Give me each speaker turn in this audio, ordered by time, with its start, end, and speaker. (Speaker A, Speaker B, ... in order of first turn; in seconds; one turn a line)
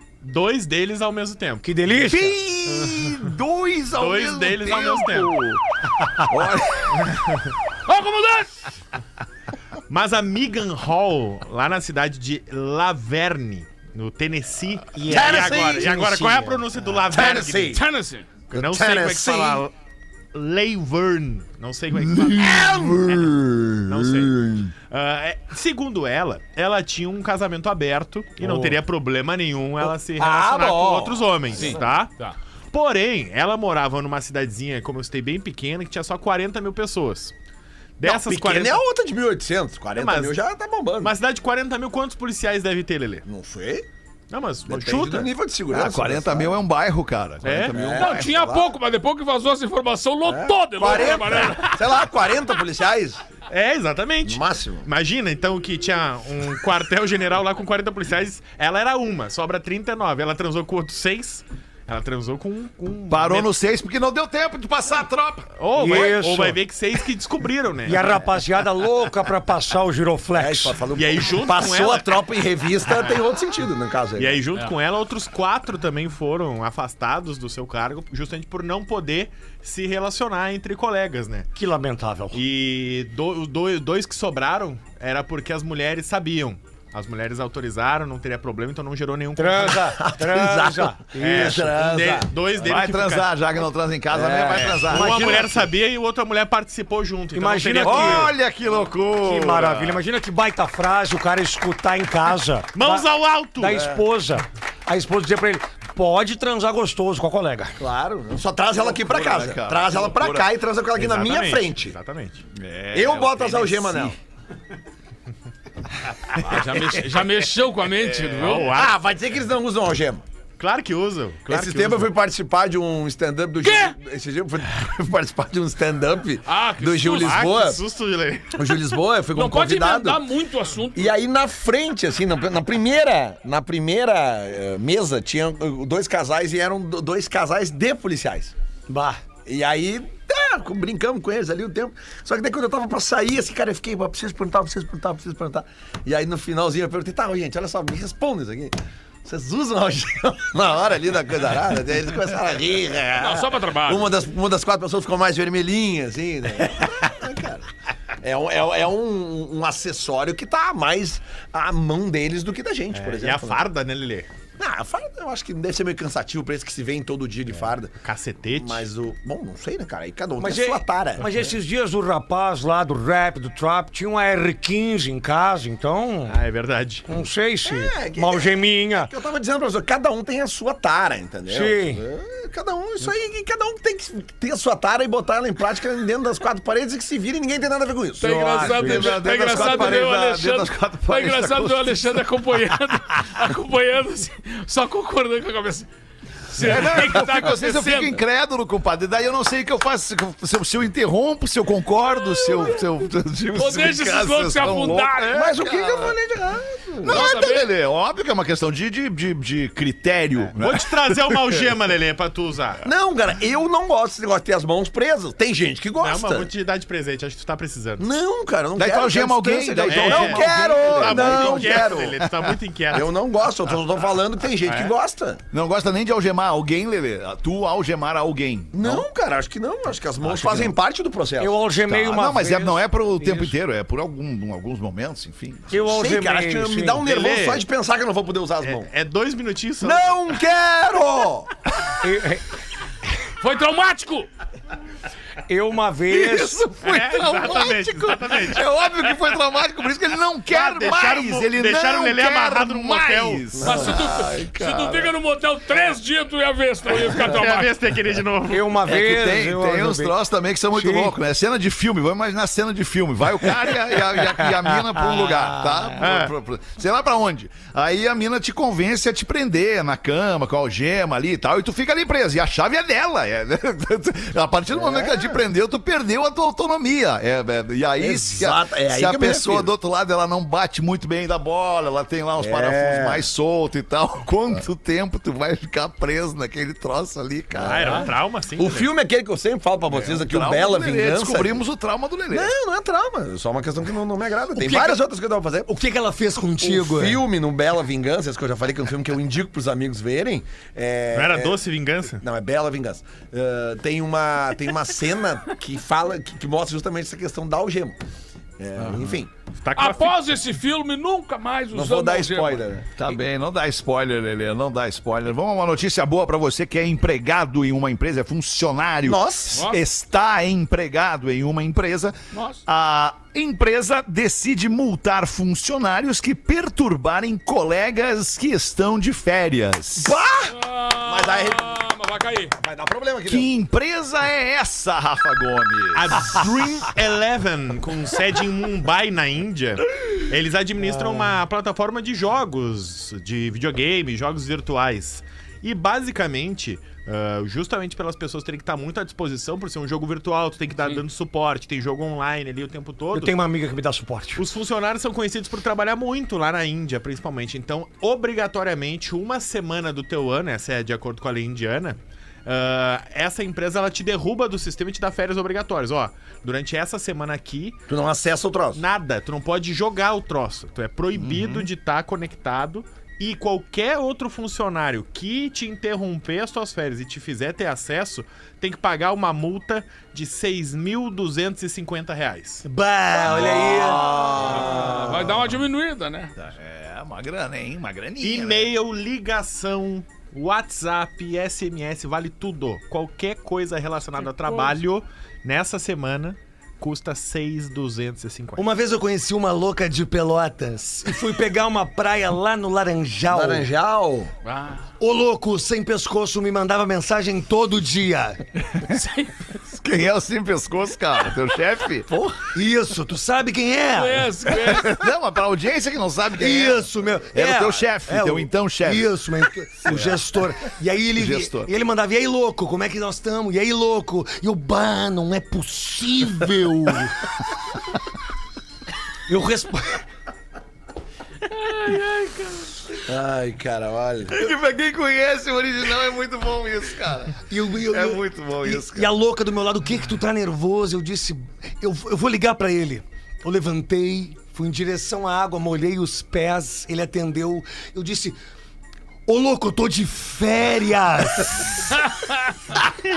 Speaker A: 0.2-1.7
Speaker B: 1.6-2.4
Speaker C: 2.0-5.5
Speaker A: 2.7-3.2
Speaker A: 4.0-5.5
Speaker C: 6.3-7.1
Speaker D: 7.8-8.5
Speaker A: 9.9-17.8
Speaker B: 14.9-16.7
Speaker E: 15.1-15.8
Speaker E: 17.1-17.8
Speaker D: 17.7-18.3
Speaker A: 18.5-19.7
Speaker E: 18.5-19.6
Speaker A: 20.3-23.2
Speaker C: 22.0-23.4
Speaker E: 22.4-23.7
Speaker A: 23.9-32.1
Speaker B: 28.4-28.8
Speaker E: 29.8-31.9
Speaker D: 31.6-32.4
Speaker A: 32.7-37.3
Speaker A: 38.0-38.8
Speaker E: 38.0-41.1
Speaker A: 40.0-40.4
Speaker A: 41.0-43.2
Speaker E: 43.2-43.9
Speaker A: 44.3-45.3
Speaker E: 44.6-46.5
Speaker C: 45.7-48.5
Speaker A: 47.4-47.8
Speaker E: 47.7-48.7
Speaker D: 48.0-52.0
Speaker E: 50.2-53.2
Speaker A: 53.5-63.5
Speaker E: 54.2-54.9
Speaker C: 63.1-65.5
Speaker A: 65.6-68.2
Speaker B: 65.8-66.6
Speaker B: 67.8-70.8
Speaker E: 70.4-74.4
Speaker A: 70.9-72.1
Speaker A: 72.8-73.2
Speaker A: 74.2-81.5
Speaker B: 81.5-82.4
Speaker A: 82.3-90.0
Speaker B: 89.3-91.8
Speaker E: 90.0-92.3
Speaker A: 91.2-93.3
Speaker C: 92.6-95.6
Speaker B: 94.2-95.6
Speaker E: 94.2-94.6
Speaker A: 94.5-98.3
Speaker B: 97.3-98.3
Speaker C: 97.8-100.0
Speaker B: 99.2-107.8
Speaker A: 102.7-103.9
Speaker E: 103.7-104.0
Speaker E: 107.8-112.0
Speaker C: 108.7-110.5
Speaker A: 110.9-112.4
Speaker C: 112.5-114.2
Speaker E: 112.9-114.2
Speaker D: 116.3-118.7
Speaker C: 117.9-118.6
Speaker A: 118.4-118.9
Speaker E: 118.5-120.2
Speaker A: 120.6-122.1
Speaker E: 121.5-127.8
Speaker D: 123.6-123.9
Speaker D: 126.5-127.4
Speaker A: 127.1-128.8
Speaker E: 128.5-130.2
Speaker D: 129.3-131.2
Speaker E: 130.9-138.5
Speaker B: 138.9-139.2
Speaker E: 139.4-157.7
Speaker D: 153.2-154.1
Speaker E: 158.2-163.6
Speaker A: 162.9-164.3
Speaker E: 164.6-167.9
Speaker A: 168.0-168.8
Speaker E: 168.5-171.2
Speaker B: 170.4-176.4
Speaker A: 176.3-177.1
Speaker B: 177.1-179.1
Speaker E: 177.7-190.0
Speaker B: 181.5-182.0
Speaker D: 188.2-195.9
Speaker B: 188.2-189.1
Speaker C: 188.6-192.2
Speaker D: 196.5-198.2
Speaker C: 196.6-206.2
Speaker D: 202.3-202.7
Speaker D: 203.5-205.4
Speaker E: 205.3-207.4
Speaker C: 207.0-211.7
Speaker D: 207.0-207.7
Speaker A: 210.5-212.8
Speaker E: 212.8-216.5
Speaker A: 216.0-218.1
Speaker E: 218.0-222.3
Speaker C: 218.8-221.7
Speaker A: 219.8-223.1
Speaker E: 222.9-225.4
Speaker A: 224.6-224.9
Speaker C: 225.5-229.1
Speaker E: 228.7-231.6
Speaker C: 230.2-230.8
Speaker B: 231.4-233.5
Speaker C: 231.9-235.8
Speaker B: 235.7-237.0
Speaker E: 235.8-238.9
Speaker A: 237.0-237.6
Speaker A: 238.6-240.3
Speaker E: 239.8-241.5
Speaker B: 242.0-242.4
Speaker D: 243.4-244.3
Speaker B: 245.5-246.7
Speaker C: 246.1-255.1
Speaker A: 246.8-248.7
Speaker A: 250.5-253.6
Speaker E: 253.6-254.1
Speaker D: 253.6-257.7
Speaker A: 257.0-258.7
Speaker B: 258.5-260.1
Speaker C: 258.9-288.1
Speaker B: 260.7-261.1
Speaker B: 264.2-265.9
Speaker A: 266.0-266.3
Speaker E: 274.7-275.4
Speaker E: 278.0-279.7
Speaker E: 282.4-283.2
Speaker A: 287.6-288.9
Speaker E: 287.6-291.6
Speaker C: 289.9-292.5
Speaker E: 292.3-295.7
Speaker B: 294.6-295.0
Speaker B: 295.6-297.2
Speaker E: 296.6-301.6
Speaker A: 301.1-302.2
Speaker E: 302.2-308.0
Speaker E: 308.6-309.3
Speaker A: 309.5-310.2
Speaker D: 309.8-312.6
Speaker E: 311.7-312.9
Speaker C: 313.0-330.1
Speaker E: 319.0-319.6
Speaker D: 319.5-319.8
Speaker D: 322.3-322.6
Speaker E: 330.0-331.8
Speaker D: 330.5-332.5
Speaker E: 332.6-333.5
Speaker C: 333.2-336.1
Speaker A: 335.9-353.3
Speaker B: 341.0-341.2
Speaker B: 353.1-354.4
Speaker A: 354.4-367.8
Speaker E: 367.9-368.8
Speaker A: 368.7-382.6
Speaker C: 371.1-371.7
Speaker B: 382.6-384.4
Speaker C: 383.3-384.8
Speaker E: 384.1-385.2
Speaker D: 384.4-386.3
Speaker C: 386.4-388.7
Speaker A: 388.2-398.6
Speaker D: 394.4-394.7
Speaker B: 398.6-403.7
Speaker E: 403.3-404.3
Speaker D: 404.4-404.9
Speaker B: 405.0-408.4
Speaker D: 408.8-409.5
Speaker C: 409.7-412.1
Speaker E: 412.1-412.4
Speaker B: 412.5-414.3
Speaker D: 413.9-414.9
Speaker C: 414.4-419.2
Speaker B: 416.4-427.3
Speaker C: 419.8-420.3
Speaker C: 421.1-421.7
Speaker B: 429.3-430.0
Speaker D: 431.5-432.8
Speaker E: 433.1-434.4
Speaker C: 434.3-439.1
Speaker B: 437.5-448.4
Speaker B: 449.3-451.8
Speaker D: 451.9-452.6